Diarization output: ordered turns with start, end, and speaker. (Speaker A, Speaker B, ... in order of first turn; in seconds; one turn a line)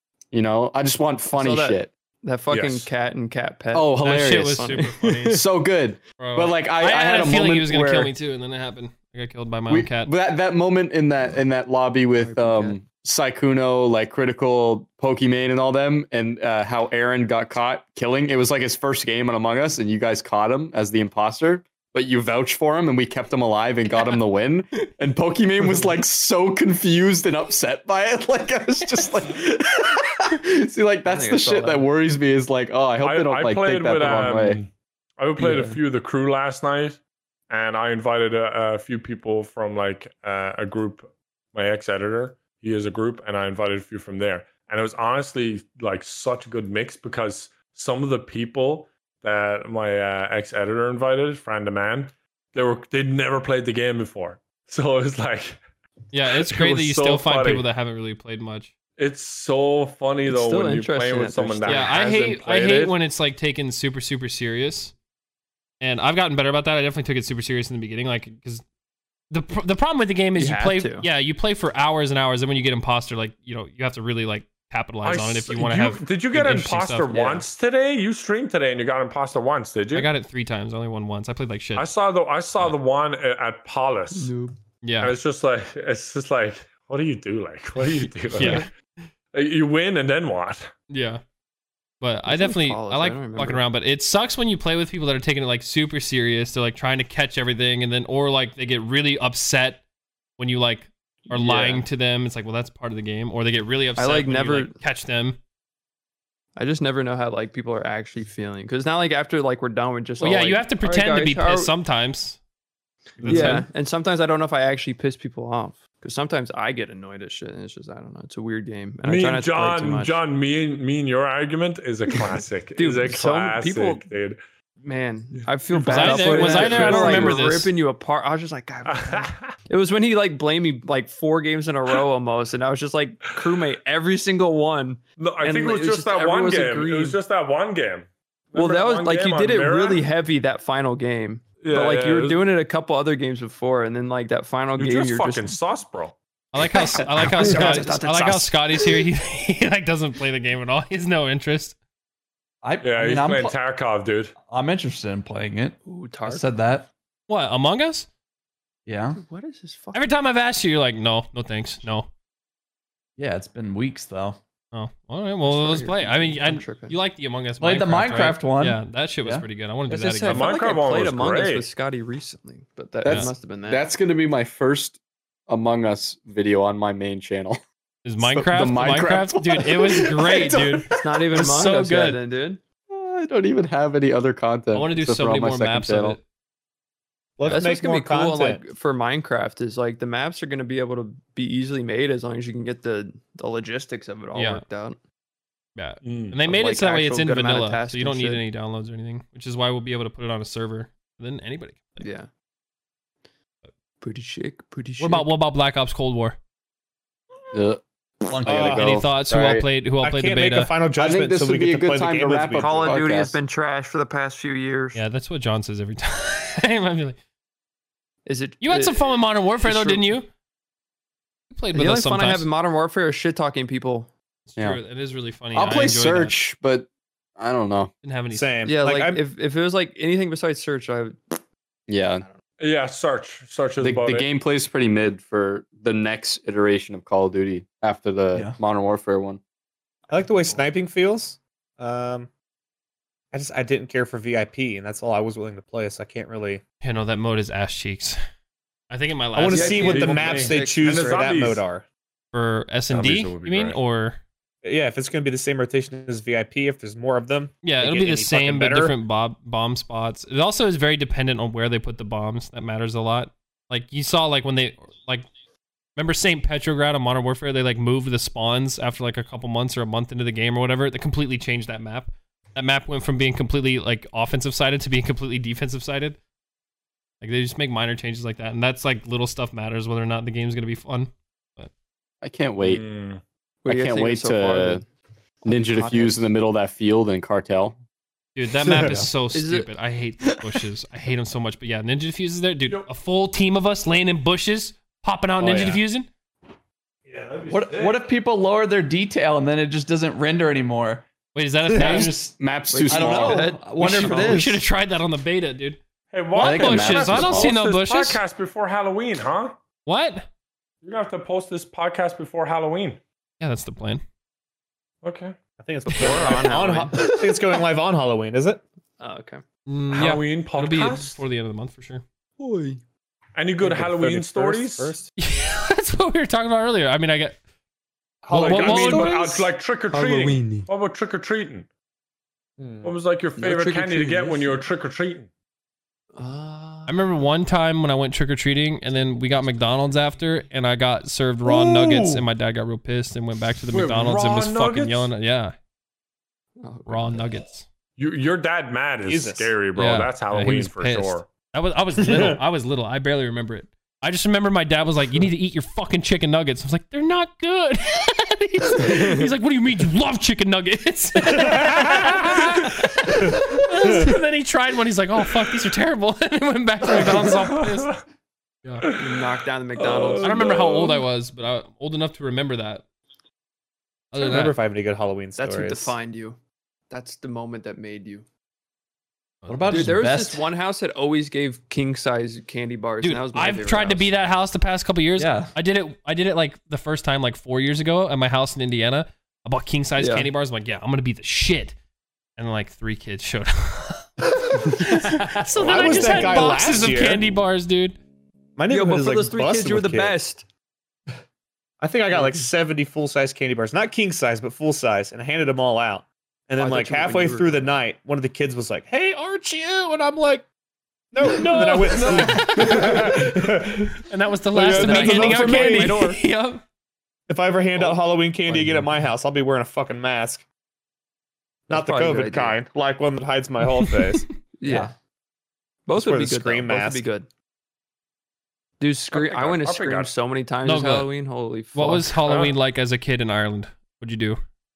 Speaker A: 0.3-1.9
Speaker B: 1.4-5.4
Speaker C: 2.5-2.9
Speaker A: 3.7-8.1
Speaker D: 4.0-5.4
Speaker D: 6.2-10.1
Speaker A: 9.7-34.6
Speaker B: 12.2-12.8
Speaker B: 31.0-31.9
Speaker C: 33.0-55.6
Speaker B: 35.4-35.8
Speaker D: 56.1-58.7
Speaker C: 56.3-57.6
Speaker C: 59.0-63.0
Speaker B: 60.3-62.0
Speaker D: 61.7-64.9
Speaker D: 65.8-68.6
Speaker D: 69.3-77.2
Speaker B: 70.4-71.0
Speaker C: 75.0-80.1
Speaker D: 79.9-81.9
Speaker C: 81.7-84.3
Speaker B: 84.1-84.5
Speaker D: 84.8-85.2
Speaker C: 85.0-88.7
Speaker D: 88.3-88.7
Speaker C: 89.3-90.7
Speaker D: 90.9-91.2
Speaker D: 92.0-99.8
Speaker B: 92.3-93.6
Speaker D: 100.4-105.4
Speaker B: 101.3-101.8
Speaker B: 104.0-104.8
Speaker B: 106.5-111.7
Speaker D: 110.2-112.4
Speaker C: 113.2-113.5
Speaker D: 113.2-113.7
Speaker B: 113.2-120.2
Speaker C: 119.0-124.4
Speaker B: 122.8-124.0
Speaker B: 124.8-137.2
Speaker C: 125.7-127.4
Speaker D: 125.8-127.7
Speaker C: 128.8-129.5
Speaker C: 135.2-140.1
Speaker B: 138.5-145.6
Speaker C: 141.6-142.4
Speaker C: 144.8-146.1
Speaker D: 146.5-151.8
Speaker B: 147.0-148.9
Speaker E: 152.6-153.6
Speaker C: 152.8-154.3
Speaker E: 154.5-156.9
Speaker B: 155.8-156.4
Speaker D: 157.3-158.1
Speaker E: 158.8-159.2
Speaker B: 159.2-160.0
Speaker D: 159.9-162.1
Speaker E: 163.2-164.4
Speaker D: 164.7-170.5
Speaker B: 165.5-166.9
Speaker E: 167.6-169.4
Speaker B: 169.9-173.8
Speaker C: 170.3-171.7
Speaker A: 173.0-177.6
Speaker D: 178.0-182.2
Speaker A: 178.2-180.9
Speaker B: 180.9-182.6
Speaker A: 182.9-186.2
Speaker D: 184.7-186.2
Speaker F: 187.4-188.6
Speaker B: 187.4-195.0
Speaker D: 194.3-194.6
Speaker D: 195.8-202.1
Speaker C: 196.0-196.4
Speaker B: 196.5-198.4
Speaker B: 202.0-202.3
Speaker B: 204.0-205.3
Speaker D: 205.0-206.4
Speaker A: 207.5-209.7
Speaker E: 208.3-208.9
Speaker F: 208.5-209.0
Speaker D: 208.7-210.7
Speaker F: 210.0-213.0
Speaker A: 211.0-213.4
Speaker B: 212.6-215.0
Speaker D: 214.9-217.2
Speaker B: 218.2-220.1
Speaker D: 218.6-220.3
Speaker D: 221.5-222.5
Speaker B: 221.7-224.1
Speaker D: 224.5-226.3
Speaker A: 225.5-227.9
Speaker D: 228.0-228.5
Speaker F: 228.3-229.2
Speaker B: 228.6-231.4
Speaker A: 231.9-232.2
Speaker C: 232.6-234.3
Speaker A: 233.8-239.4
Speaker F: 240.1-242.3
Speaker F: 243.3-246.6
Speaker D: 246.8-248.2
Speaker D: 248.9-250.1
Speaker F: 249.3-251.8
Speaker B: 249.5-251.2
Speaker C: 249.8-251.6
Speaker D: 252.3-254.2
Speaker C: 252.9-253.8
Speaker F: 254.6-259.0
Speaker D: 257.6-265.3
Speaker D: 265.9-276.2
Speaker D: 277.2-281.7
Speaker A: 282.2-282.8
Speaker C: 282.6-283.2
Speaker B: 283.6-284.9
Speaker A: 283.6-284.8
Speaker B: 285.4-286.2
Speaker A: 285.4-287.8
Speaker D: 288.3-296.1
Speaker E: 288.7-289.1
Speaker B: 289.3-289.7
Speaker C: 297.1-298.1
Speaker E: 297.5-301.1
Speaker D: 301.3-302.1
Speaker E: 301.7-304.6
Speaker A: 301.8-303.5
Speaker B: 302.7-304.6
Speaker D: 303.8-305.8
Speaker C: 306.1-309.6
Speaker D: 306.3-308.2
Speaker A: 306.3-307.5
Speaker D: 309.9-310.3
Speaker C: 310.8-313.0
Speaker D: 313.4-314.0
Speaker C: 315.0-315.4
Speaker F: 315.6-318.6
Speaker B: 315.9-317.6
Speaker B: 319.0-319.4
Speaker D: 319.7-322.0
Speaker C: 319.9-321.2
Speaker B: 322.4-322.8
Speaker C: 323.4-325.0
Speaker F: 323.6-325.1
Speaker D: 325.2-327.4
Speaker F: 328.3-329.1
Speaker C: 328.3-331.7
Speaker D: 328.3-329.3
Speaker B: 328.6-329.3
Speaker B: 329.9-330.7
Speaker F: 332.6-332.9
Speaker C: 332.8-335.3
Speaker B: 333.4-334.6
Speaker B: 336.1-337.0
Speaker D: 336.9-345.5
Speaker C: 341.5-342.2
Speaker C: 343.7-345.1
Speaker B: 346.6-347.3
Speaker D: 346.9-347.6
Speaker C: 348.0-351.3
Speaker F: 349.1-349.5
Speaker D: 349.8-367.9
Speaker F: 352.0-352.4
Speaker B: 358.8-359.3
Speaker C: 362.2-362.5
Speaker F: 363.8-364.1
Speaker C: 366.9-368.0
Speaker C: 368.8-371.0
Speaker B: 368.9-370.4
Speaker D: 370.2-372.8
Speaker D: 374.1-374.6
Speaker F: 374.2-375.9
Speaker B: 375.4-376.4
Speaker B: 376.9-378.2
Speaker D: 379.4-379.9
Speaker E: 379.5-380.5
Speaker B: 379.7-384.1
Speaker D: 383.0-391.7
Speaker E: 385.2-385.5
Speaker B: 390.0-390.3
Speaker D: 392.4-398.0
Speaker B: 394.8-396.8
Speaker F: 395.6-397.3
Speaker F: 398.6-400.1
Speaker B: 398.7-400.4
Speaker F: 401.8-410.4
Speaker B: 406.6-407.7
Speaker F: 411.1-414.0
Speaker D: 411.4-413.2
Speaker D: 414.1-416.6
Speaker F: 414.5-416.2
Speaker B: 414.7-416.2
Speaker F: 417.3-420.4
Speaker E: 418.5-418.9
Speaker B: 421.7-422.6
Speaker F: 421.7-424.3
Speaker B: 424.6-424.9
Speaker E: 424.6-424.9
Speaker B: 425.9-427.3
Speaker F: 425.9-427.1
Speaker B: 428.8-432.1
Speaker C: 429.1-430.1
Speaker D: 430.6-431.1
Speaker D: 431.7-434.4
Speaker C: 432.2-432.5